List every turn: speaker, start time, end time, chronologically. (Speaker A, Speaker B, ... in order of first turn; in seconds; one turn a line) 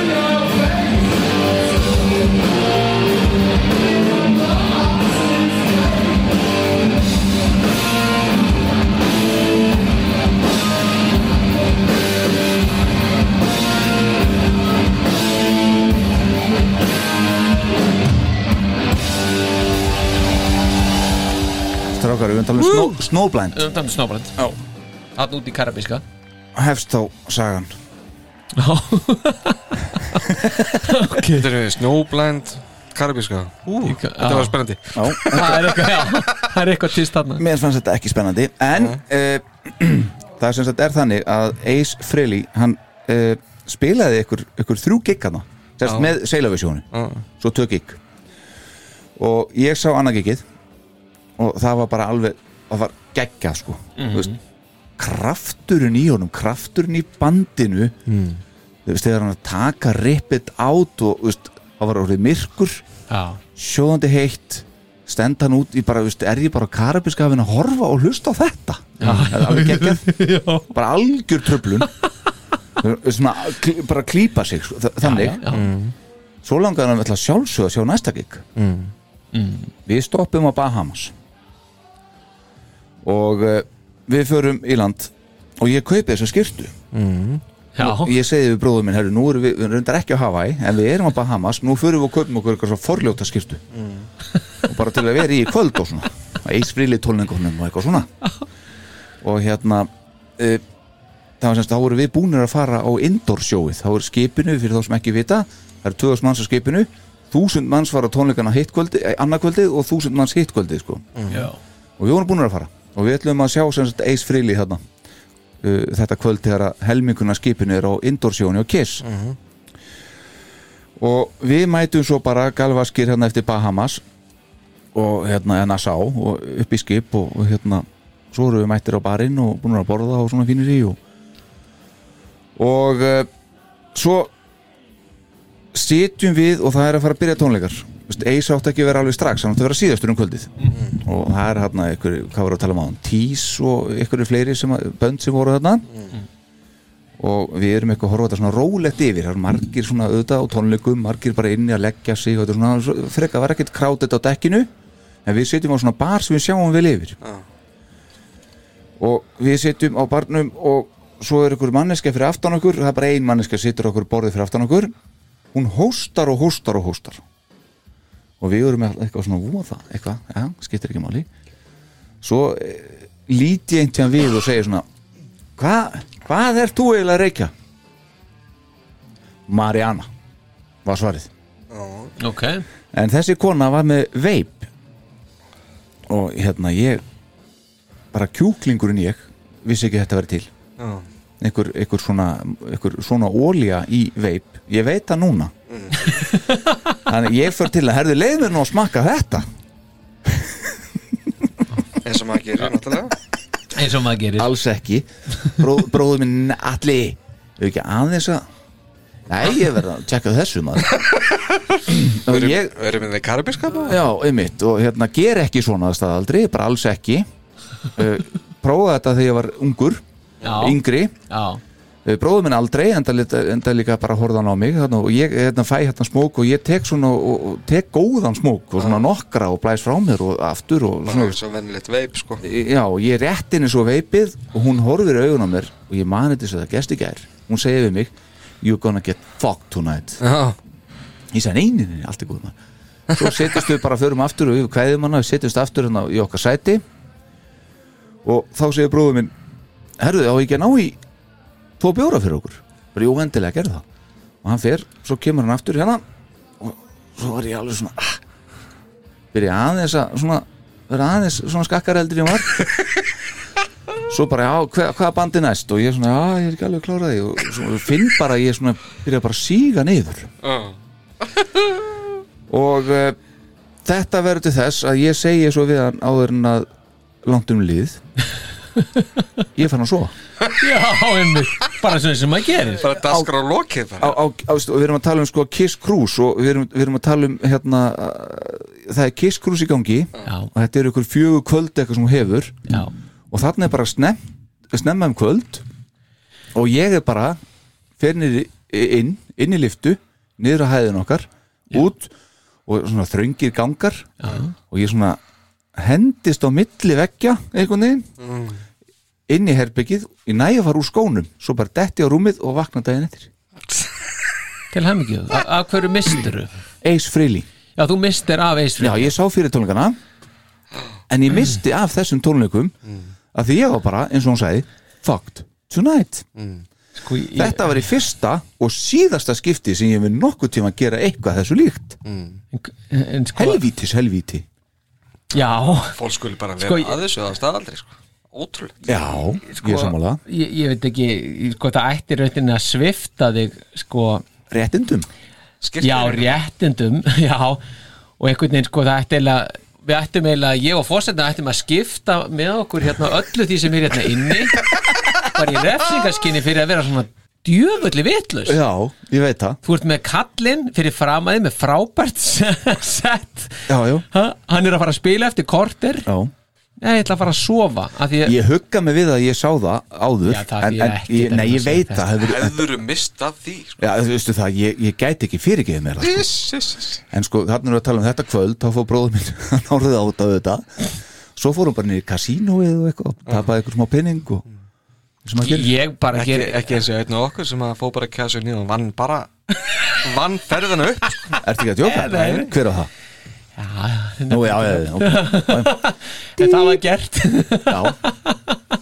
Speaker A: 21.9-23.7
Speaker B: 22.6-23.0
Speaker B: 23.5-24.3
Speaker B: 25.2-26.0
Speaker A: 26.6-27.7
Speaker B: 28.6-30.3
Speaker A: 30.3-30.8
Speaker B: 30.8-31.5
Speaker C: 31.2-36.3
Speaker B: 33.8-34.6
Speaker A: 35.0-35.8
Speaker B: 35.2-37.4
Speaker A: 37.4-46.9
Speaker C: 45.9-46.1
Speaker C: 46.9-47.2
Speaker A: 47.4-48.0
Speaker A: 49.2-50.5
Speaker A: 51.4-54.3
Speaker B: 54.0-54.4
Speaker A: 55.0-58.0
Speaker C: 58.1-58.4
Speaker A: 58.9-62.8
Speaker B: 63.1-63.4
Speaker A: 63.6-70.1
Speaker B: 69.0-70.7
Speaker A: 70.7-71.9
Speaker A: 72.8-75.4
Speaker B: 75.0-75.7
Speaker C: 75.5-75.9
Speaker A: 76.4-78.5
Speaker C: 78.6-78.9
Speaker B: 79.3-79.7
Speaker A: 79.9-81.1
Speaker A: 83.0-86.7
Speaker C: 86.9-87.4
Speaker B: 87.8-88.2
Speaker A: 87.8-93.6
Speaker C: 93.7-94.1
Speaker A: 94.7-98.1
Speaker A: 99.2-100.6
Speaker A: 101.4-111.0
Speaker C: 111.2-111.5
Speaker B: 111.3-111.6
Speaker A: 112.0-114.8
Speaker A: 115.6-119.0
Speaker C: 119.0-119.4
Speaker A: 121.0-124.0
Speaker A: 124.9-131.0
Speaker A: 132.6-133.3
Speaker A: 133.9-134.3
Speaker A: 135.7-145.9
Speaker A: 147.2-154.7
Speaker A: 155.3-157.2
Speaker A: 159.0-164.9
Speaker A: 165.5-167.2
Speaker A: 168.4-171.3
Speaker A: 172.2-174.8
Speaker A: 175.6-177.5
Speaker A: 179.5-180.1
Speaker A: 180.8-181.3
Speaker C: 181.7-182.1
Speaker B: 182.2-182.7
Speaker A: 182.9-184.7
Speaker A: 186.1-187.0
Speaker A: 188.1-190.5
Speaker C: 190.8-191.1
Speaker A: 191.4-195.5
Speaker C: 195.7-196.2
Speaker B: 196.1-196.9
Speaker A: 197.1-199.5
Speaker A: 200.3-200.7
Speaker C: 202.0-203.2
Speaker B: 203.8-204.5
Speaker A: 204.4-208.4
Speaker A: 209.3-211.0
Speaker C: 210.9-214.0
Speaker A: 211.9-212.7
Speaker A: 213.9-217.3
Speaker A: 218.0-220.0
Speaker B: 220.4-221.6
Speaker A: 220.6-221.1
Speaker A: 222.1-231.4
Speaker C: 228.8-229.1
Speaker C: 231.1-232.4
Speaker A: 232.4-240.2
Speaker C: 240.2-240.6
Speaker A: 241.3-242.6
Speaker C: 243.1-243.5
Speaker A: 243.1-246.8
Speaker A: 248.2-249.3
Speaker A: 250.0-251.0
Speaker A: 251.8-253.8
Speaker A: 254.4-256.0
Speaker A: 256.6-258.1
Speaker A: 259.3-262.7
Speaker A: 264.1-270.3
Speaker C: 270.4-270.8
Speaker C: 271.3-271.7
Speaker A: 272.5-273.2
Speaker A: 273.9-276.7
Speaker A: 277.2-278.0
Speaker A: 279.6-280.1
Speaker B: 280.6-282.9
Speaker C: 282.8-284.2
Speaker A: 282.9-283.3
Speaker A: 284.0-292.7
Speaker A: 293.3-294.2
Speaker A: 294.7-295.6
Speaker A: 296.5-297.4
Speaker A: 298.0-302.1
Speaker A: 302.7-305.2
Speaker B: 304.2-304.5
Speaker A: 305.8-308.1
Speaker C: 308.2-308.6
Speaker A: 309.3-313.3
Speaker B: 314.7-316.5
Speaker A: 316.8-317.5
Speaker B: 317.8-319.1
Speaker A: 318.8-320.0
Speaker A: 321.1-322.7
Speaker A: 323.3-326.2
Speaker C: 326.4-326.6
Speaker B: 327.0-327.7
Speaker A: 327.4-332.0
Speaker C: 332.1-332.4
Speaker B: 332.5-333.6
Speaker A: 333.4-334.4
Speaker B: 335.3-335.9
Speaker C: 335.9-338.9
Speaker B: 336.6-337.0
Speaker A: 338.9-340.2
Speaker C: 339.5-339.9
Speaker B: 340.3-344.2
Speaker A: 344.5-345.1
Speaker C: 345.6-346.4
Speaker B: 345.8-347.6
Speaker B: 348.2-354.6
Speaker B: 355.2-358.6
Speaker A: 358.5-359.6
Speaker B: 359.6-366.1
Speaker A: 363.7-364.1
Speaker A: 366.1-366.3
Speaker B: 366.8-368.4
Speaker A: 368.2-372.6
Speaker B: 370.2-372.1
Speaker C: 372.2-373.8
Speaker A: 373.8-376.3
Speaker C: 376.0-377.0
Speaker A: 377.1-384.4
Speaker A: 385.2-385.7
Speaker B: 385.4-386.6
Speaker C: 386.1-391.4
Speaker A: 391.4-392.9
Speaker B: 391.8-392.5
Speaker B: 393.6-398.6
Speaker A: 394.3-395.8
Speaker A: 396.4-396.8
Speaker A: 397.7-398.0